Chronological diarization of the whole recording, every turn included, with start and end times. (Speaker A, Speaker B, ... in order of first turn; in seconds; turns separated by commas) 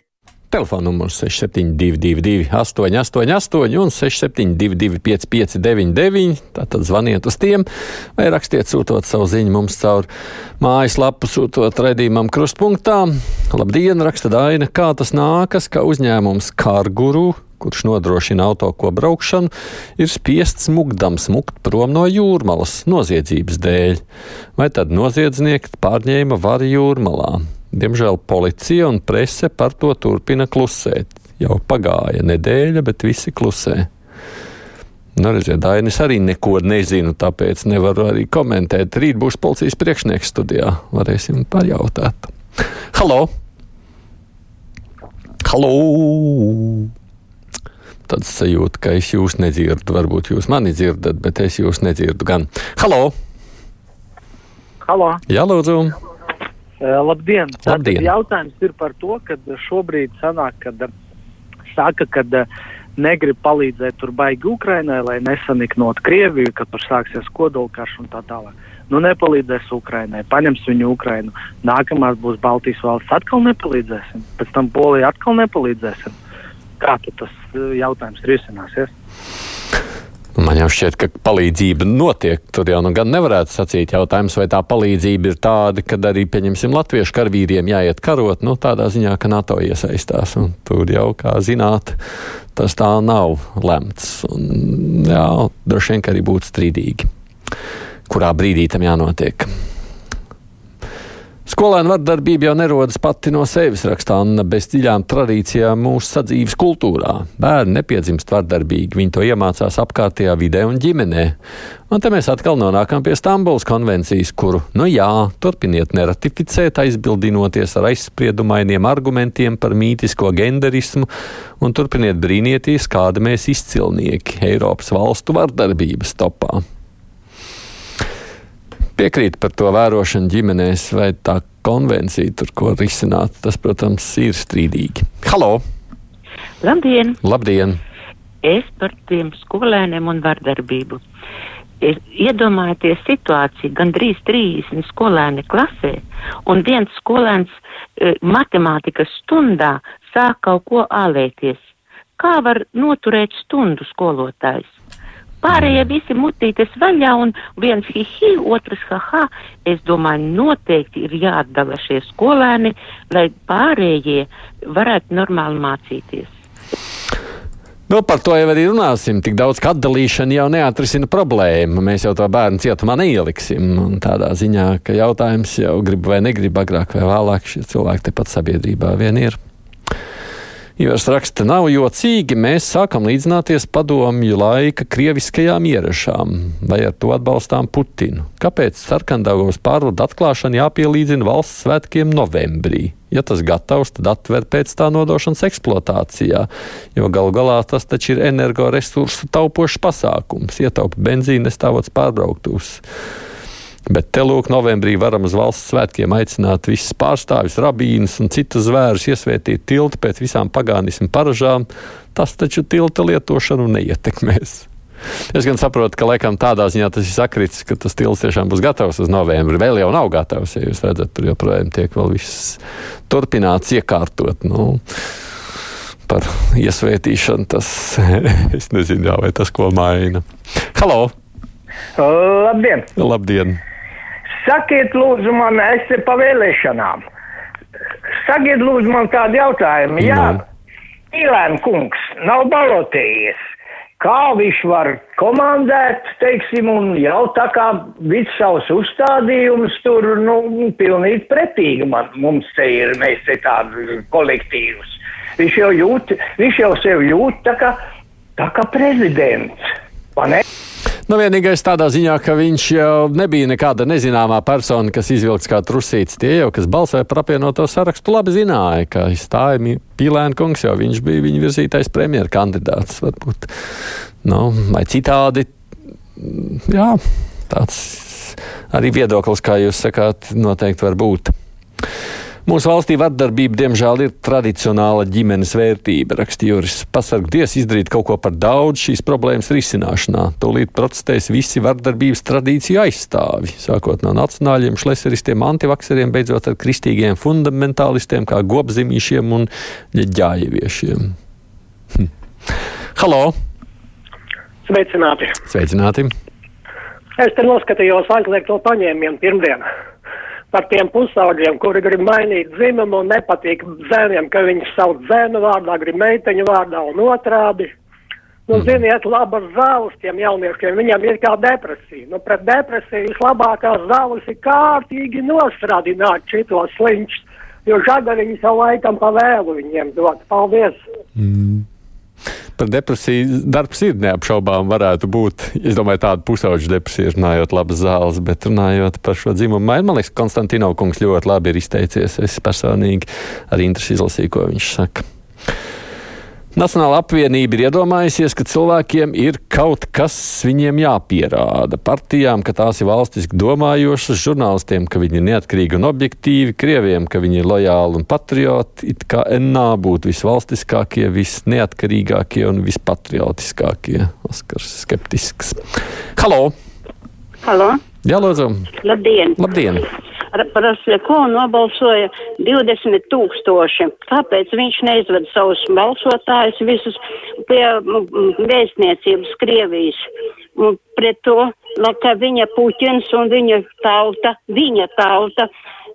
Speaker A: 0.5-7.7, Speaker A: 8.2-10.1, Speaker A: 10.6-24.0, Speaker A: 24.6-33.9, Speaker A: 35.2-42.3, Speaker A: 42.9-43.3, Speaker A: 45.4-46.9, Speaker A: 48.1-53.1, Speaker B: 54.8-55.2, Speaker A: 55.3-55.9, Speaker B: 56.8-60.9, Speaker A: 57.6-58.1, Speaker B: 61.7-76.2, Speaker B: 76.8-78.9, Speaker A: 80.4-92.0, Speaker A: 92.5-97.0, Speaker A: 98.1-99.5, Speaker A: 101.5-111.3, Speaker A: 111.9-121.1, Speaker A: 121.6-126.6, Speaker A: 129.0-135.6, Speaker C: 136.6-137.2, Speaker A: 137.2-137.8, Speaker C: 138.4-141.0, Speaker C: 141.8-151.6, Speaker C: 152.2-154.7, Speaker C: 155.4-166.3, Speaker A: 155.5-155.8, Speaker A: 167.9-179.4, Speaker A: 180.8-202.8, Speaker A: 203.9-214.7, Speaker A: 215.3-224.8, Speaker A: 226.1-231.1, Speaker D: 232.0-232.9, Speaker A: 233.0-233.6, Speaker D: 234.4-237.0, Speaker D: 238.2-240.4, Speaker A: 240.0-240.4, Speaker D: 241.1-243.4, Speaker D: 244.0-257.8, Speaker D: 258.4-259.6, Speaker D: 260.1-260.4, Speaker A: 261.1-273.5, Speaker A: 274.2-275.5, Speaker A: 276.2-277.0, Speaker A: 277.5-281.3, Speaker A: 282.4-301.1, Speaker A: 302.9-303.3, Speaker E: 304.6-305.3, Speaker A: 305.5-306.1, Speaker E: 307.2-309.6, Speaker E: 310.5-317.7, Speaker E: 318.5-330.8, Speaker A: 331.1-331.6, Speaker A: 332.6-345.0, Speaker A: 346.5-365.6, Speaker A: 366.2-366.5, Speaker F: 367.4-367.8, Speaker A: 368.0-368.7, Speaker F: 368.8-369.4, Speaker A: 369.4-369.8, Speaker F: 370.3-385.5